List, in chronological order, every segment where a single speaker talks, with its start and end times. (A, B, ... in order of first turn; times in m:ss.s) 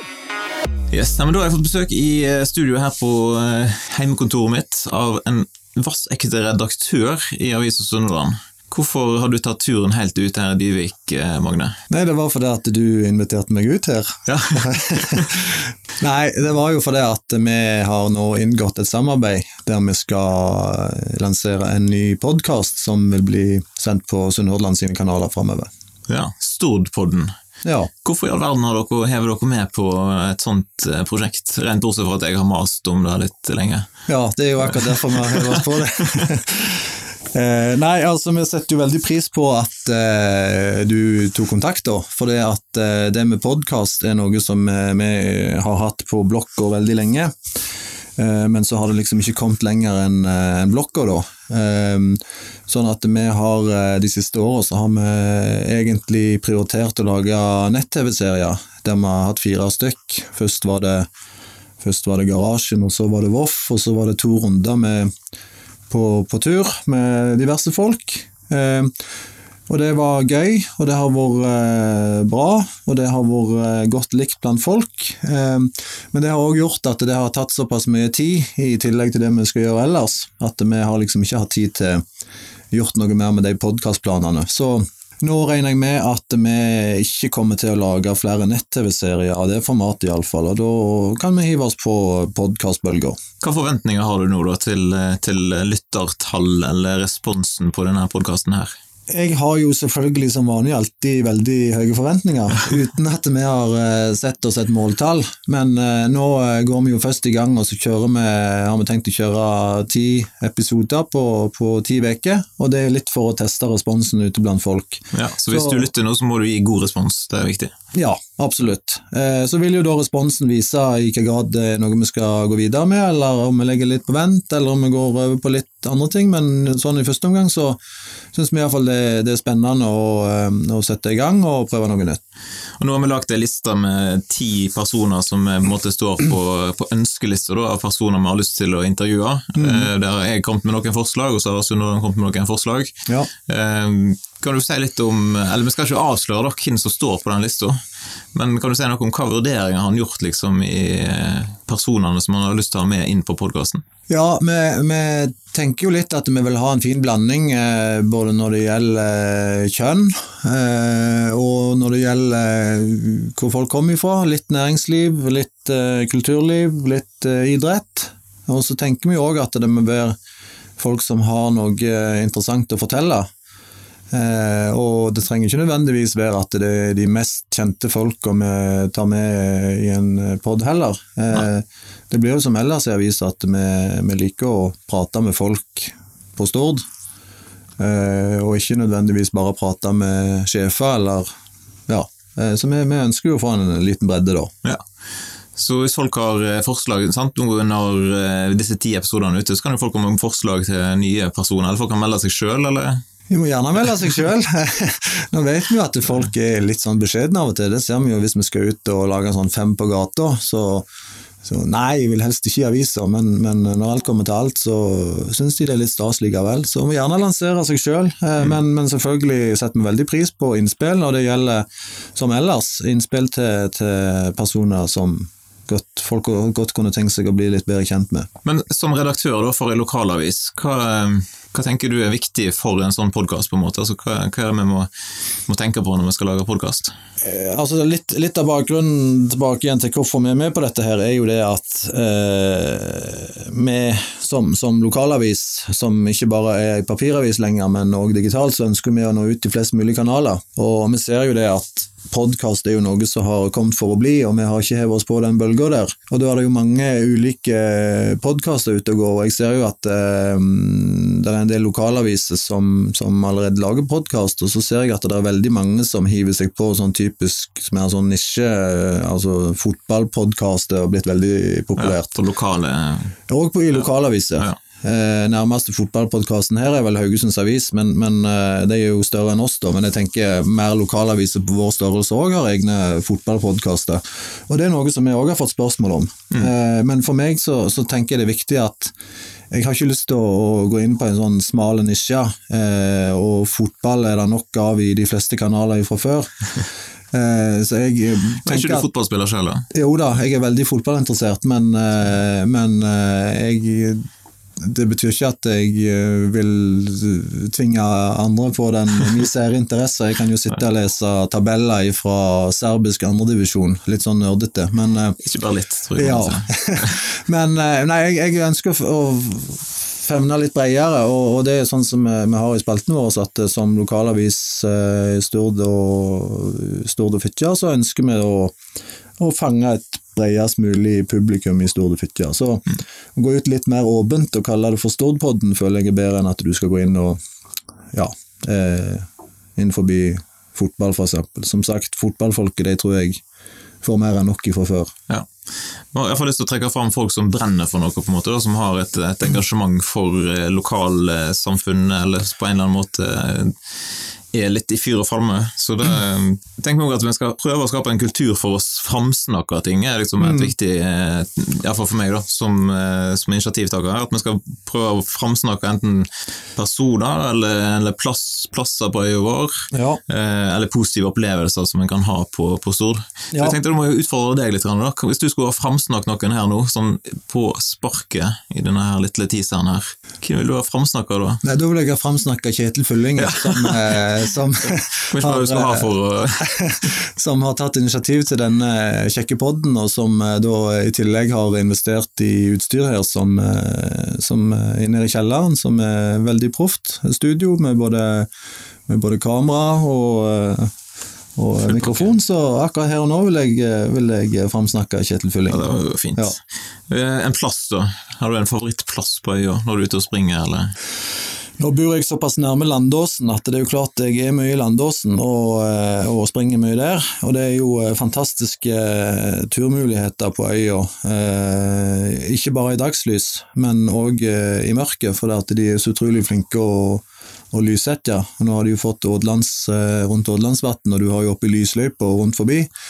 0:00.9-0:11.8 A
0:11.9-0:25.7 B
0:14.3-0:15.3 A
0:26.1-0:27.3 A
0:27.6-0:27.9 B
0:28.0-0:33.9 A
0:34.1-0:47.3 B
0:34.7-0:36.3 A
0:48.2-1:01.1 B
1:01.8-1:05.1 B
1:05.9-1:08.9 B
1:09.7-1:22.0 B
1:22.7-1:33.2 B
1:33.4-1:38.7 A
1:39.1-1:55.9 B
1:55.1-1:57.7 A
1:57.9-2:07.8 B
2:08.3-2:12.2 B
2:12.8-2:27.8 A
2:19.6-2:19.9 B
2:28.3-2:33.8 A
2:34.1-2:50.2 B
2:50.8-2:53.2 B
2:54.1-3:06.8 B
3:07.8-3:11.3 B
3:11.9-3:14.5 B
3:15.6-3:23.0 A
3:23.3-3:30.9 B
3:31.4-3:48.3 B
3:48.4-3:54.9 A
3:55.5-3:56.9 A
3:57.2-4:32.2 B
4:31.8-4:33.1 A
4:33.3-4:48.9 B
4:49.5-4:58.9 B
4:58.4-4:59.6 A
4:59.7-5:04.0 B
5:04.6-5:15.2 B
5:15.2-5:17.0 A
5:16.0-5:28.5 B
5:29.2-5:37.2 B
5:37.9-5:43.2 B
5:43.8-5:44.9 B
5:45.9-5:53.7 A
5:54.3-6:09.5 A
6:00.2-6:00.5 B
6:09.7-6:10.0 B
6:10.1-6:21.4 A
6:13.3-6:13.6 B
6:21.4-6:25.9 B
6:23.2-6:24.0 A
6:25.1-6:26.5 A
6:26.4-6:38.3 B
6:38.9-6:40.7 B
6:41.4-6:46.4 B
6:41.7-6:42.1 A
6:45.5-6:50.7 A
6:51.6-7:12.7 B